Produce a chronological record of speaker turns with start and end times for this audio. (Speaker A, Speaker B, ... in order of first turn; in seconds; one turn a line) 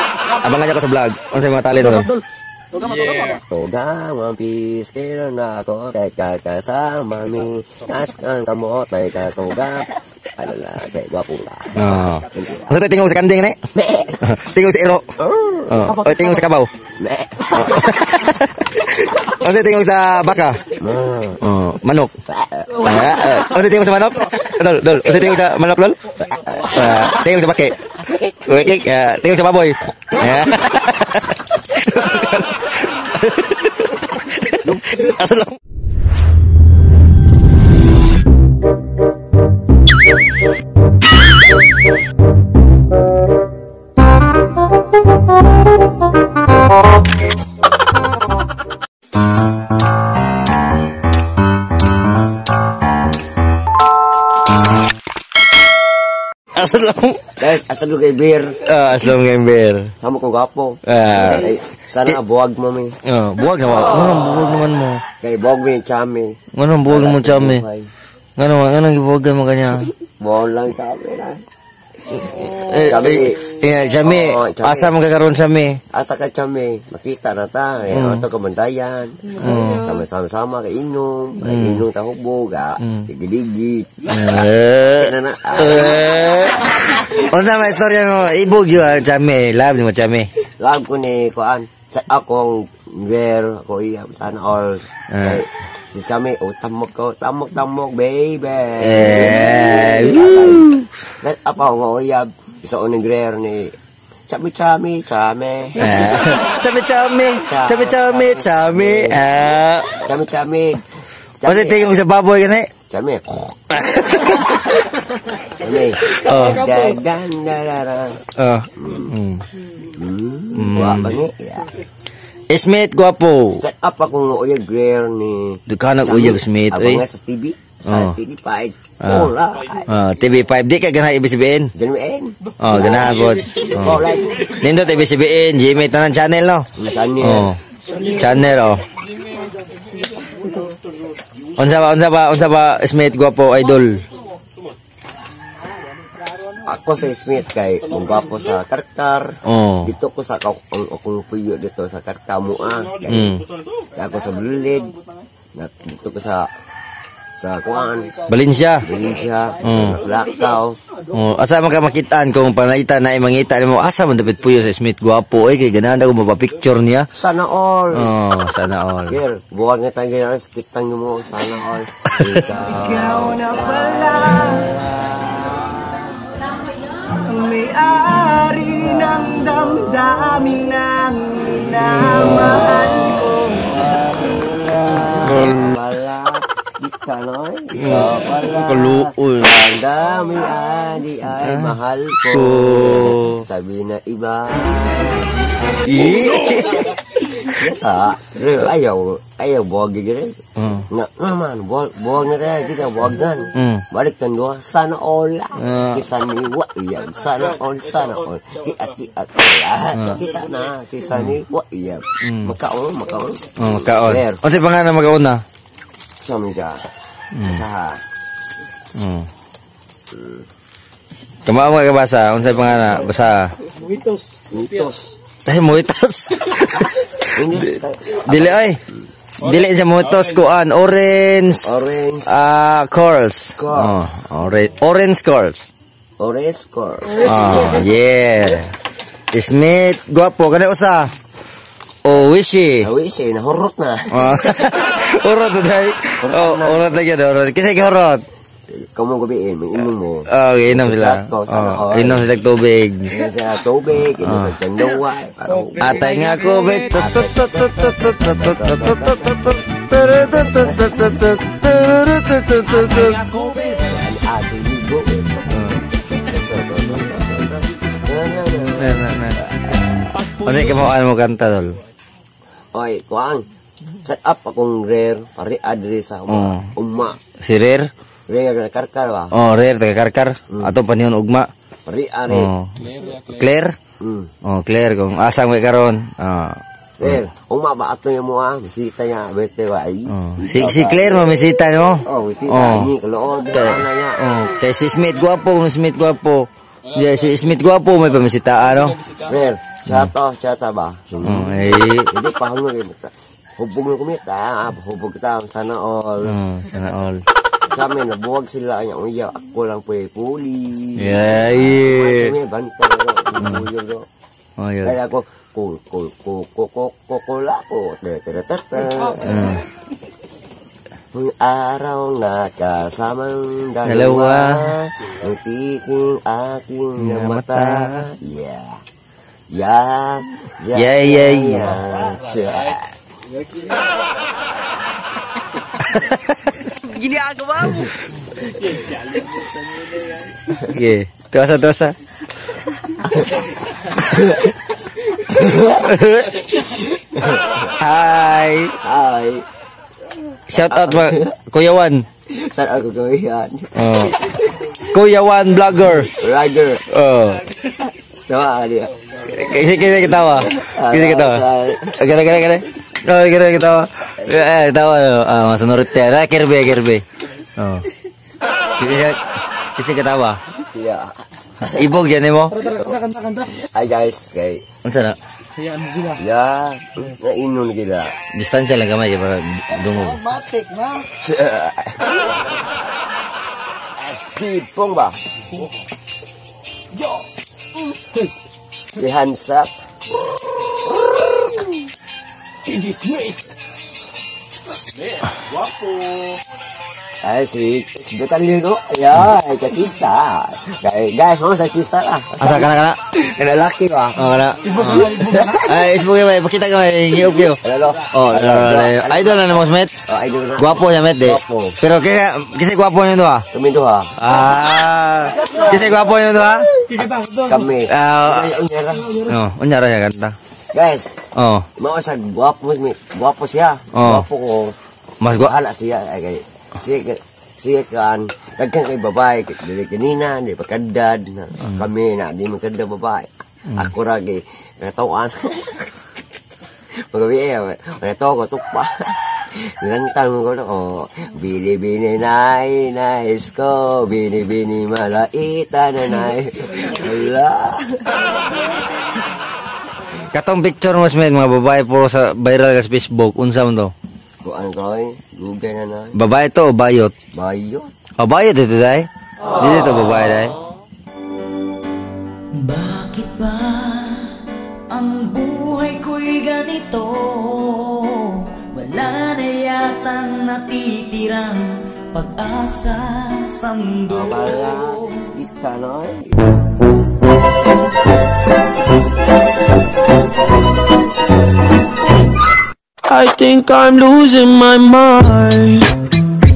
Speaker A: 0.4-2.2
Speaker B: 3.3-12.7
Speaker A: 11.8-13.6
Speaker B: 13.8-14.3
Speaker A: 14.2-15.1
Speaker B: 15.2-16.2
Speaker A: 15.7-16.7
Speaker B: 17.0-18.1
Speaker A: 17.5-20.6
Speaker B: 20.7-21.4
Speaker A: 21.4-22.1
Speaker B: 22.3-23.4
Speaker A: 22.7-27.8
Speaker B: 26.3-27.0
Speaker A: 28.4-35.6
Speaker A: 56.5-57.4
Speaker B: 57.4-58.6
Speaker A: 58.6-59.9
Speaker B: 60.0-63.0
Speaker A: 60.9-61.5
Speaker A: 63.0-65.0
Speaker B: 65.2-67.9
Speaker A: 66.5-67.6
Speaker A: 68.4-69.9
Speaker B: 70.2-71.4
Speaker B: 72.1-75.0
Speaker A: 72.3-75.8
Speaker B: 75.9-86.1
Speaker A: 77.9-78.3
Speaker A: 79.4-79.9
Speaker A: 81.4-81.8
Speaker A: 82.8-83.1
Speaker A: 84.1-90.3
Speaker B: 90.6-103.8
Speaker A: 95.1-95.4
Speaker A: 98.8-100.9
Speaker B: 104.3-106.2
Speaker A: 105.8-110.0
Speaker B: 107.5-109.2
Speaker B: 110.0-110.8
Speaker B: 111.4-111.9
Speaker A: 111.5-112.7
Speaker B: 112.9-113.6
Speaker A: 113.7-115.0
Speaker B: 115.4-118.2
Speaker A: 116.1-116.8
Speaker A: 118.3-119.4
Speaker B: 118.8-119.2
Speaker B: 119.8-121.7
Speaker A: 120.5-121.2
Speaker A: 122.5-123.6
Speaker B: 123.6-129.9
Speaker A: 125.7-127.0
Speaker A: 127.9-128.2
Speaker A: 129.0-129.3
Speaker A: 129.9-131.7
Speaker B: 131.8-134.6
Speaker A: 132.6-136.7
Speaker B: 136.8-137.6
Speaker A: 137.2-138.8
Speaker A: 141.6-144.0
Speaker B: 146.6-153.4
Speaker A: 149.4-149.9
Speaker A: 153.1-153.5
Speaker B: 153.9-154.9
Speaker B: 155.6-156.5
Speaker B: 157.4-158.2
Speaker A: 158.3-158.9
Speaker B: 158.8-160.8
Speaker A: 159.6-160.1
Speaker A: 161.1-167.1
Speaker B: 167.2-168.1
Speaker A: 167.9-169.2
Speaker B: 169.1-175.7
Speaker A: 172.1-172.5
Speaker C: 173.0-174.7
Speaker C: 177.2-183.4
Speaker B: 178.6-195.3
Speaker A: 182.2-182.7
Speaker A: 185.2-185.6
Speaker A: 187.8-189.8
Speaker A: 191.3-191.8
Speaker A: 192.3-193.4
Speaker A: 195.8-197.0
Speaker B: 197.1-214.4
Speaker A: 200.6-200.9
Speaker A: 203.6-203.8
Speaker A: 205.6-206.0
Speaker A: 209.9-210.2
Speaker A: 212.2-212.5
Speaker A: 213.6-215.4
Speaker B: 216.2-218.0
Speaker A: 217.3-217.7
Speaker A: 218.9-219.3
Speaker B: 220.1-220.4
Speaker A: 221.5-223.5
Speaker D: 223.9-224.2
Speaker B: 224.5-225.2
Speaker A: 225.4-228.8
Speaker B: 227.3-228.8
Speaker A: 229.4-231.7
Speaker B: 231.6-232.3
Speaker A: 232.2-235.7
Speaker B: 233.6-234.3
Speaker B: 236.2-237.8
Speaker A: 237.1-238.7
Speaker A: 239.3-241.1
Speaker A: 242.1-242.9
Speaker B: 242.8-244.7
Speaker A: 244.1-248.3
Speaker B: 246.2-246.9
Speaker B: 248.7-252.3
Speaker A: 250.3-253.3
Speaker B: 253.1-259.6
Speaker A: 254.2-254.6
Speaker A: 255.8-263.4
Speaker B: 260.5-260.9
Speaker B: 263.5-269.8
Speaker A: 265.5-265.8
Speaker A: 268.8-271.8
Speaker B: 272.7-273.4
Speaker B: 274.0-277.2
Speaker A: 276.3-276.7
Speaker A: 277.4-277.9
Speaker B: 278.3-279.3
Speaker A: 279.3-281.5
Speaker B: 280.5-280.8
Speaker B: 281.9-282.5
Speaker A: 282.3-283.8
Speaker B: 284.0-284.3
Speaker A: 284.4-287.2
Speaker B: 287.0-291.4
Speaker A: 290.1-292.9
Speaker B: 292.0-294.4
Speaker A: 293.5-299.0
Speaker B: 299.1-306.4
Speaker A: 299.9-300.1
Speaker A: 301.2-302.1
Speaker A: 306.3-307.2
Speaker B: 307.6-314.1
Speaker A: 311.0-312.4
Speaker A: 314.6-315.0
Speaker B: 314.8-319.6
Speaker A: 319.2-319.6
Speaker B: 321.1-328.8
Speaker A: 323.9-324.8
Speaker A: 327.0-328.1
Speaker B: 329.5-333.0
Speaker A: 330.7-331.8
Speaker A: 335.8-336.7
Speaker B: 337.5-337.9
Speaker A: 340.6-342.0
Speaker B: 344.0-344.5
Speaker B: 345.1-345.9
Speaker A: 345.8-346.5
Speaker B: 346.6-347.7
Speaker A: 347.8-348.8
Speaker B: 348.8-349.4
Speaker A: 350.5-352.1
Speaker B: 350.6-351.3
Speaker B: 352.3-354.7
Speaker A: 353.8-354.2
Speaker A: 354.7-356.1
Speaker B: 356.1-356.9
Speaker A: 356.9-357.5
Speaker B: 357.6-358.9
Speaker A: 359.2-361.4
Speaker B: 360.3-362.0
Speaker A: 361.9-367.0
Speaker A: 367.6-367.9
Speaker A: 368.8-369.2
Speaker A: 369.8-370.4
Speaker B: 370.6-371.9
Speaker A: 371.6-372.8
Speaker B: 372.6-374.6
Speaker D: 373.0-373.5
Speaker A: 374.8-375.2
Speaker D: 375.8-376.1
Speaker B: 376.1-378.2
Speaker A: 378.3-380.4
Speaker D: 380.6-380.9
Speaker B: 380.9-382.3
Speaker B: 384.0-385.2
Speaker B: 388.9-389.7
Speaker B: 390.9-391.8
Speaker D: 392.7-393.4
Speaker B: 397.2-405.9
Speaker A: 402.4-403.0
Speaker A: 404.2-407.6
Speaker B: 407.6-411.8
Speaker A: 408.1-409.9
Speaker A: 410.6-413.5
Speaker B: 413.5-414.2
Speaker A: 414.2-416.7
Speaker B: 417.0-419.3
Speaker A: 417.9-418.6
Speaker A: 419.1-420.4
Speaker B: 420.7-421.1
Speaker A: 421.4-421.7
Speaker B: 421.8-424.8
Speaker A: 423.9-424.3
Speaker A: 425.2-425.6
Speaker B: 425.3-435.9
Speaker B: 437.0-448.2
Speaker A: 450.3-453.9
Speaker B: 454.4-456.2
Speaker A: 456.1-457.1
Speaker B: 457.3-457.9
Speaker A: 458.2-460.6
Speaker E: 462.6-464.3
Speaker E: 464.9-474.0
Speaker A: 467.3-468.0
Speaker A: 469.0-469.4
Speaker A: 470.8-471.6
Speaker A: 472.3-473.6
Speaker B: 474.1-476.5
Speaker D: 483.0-485.9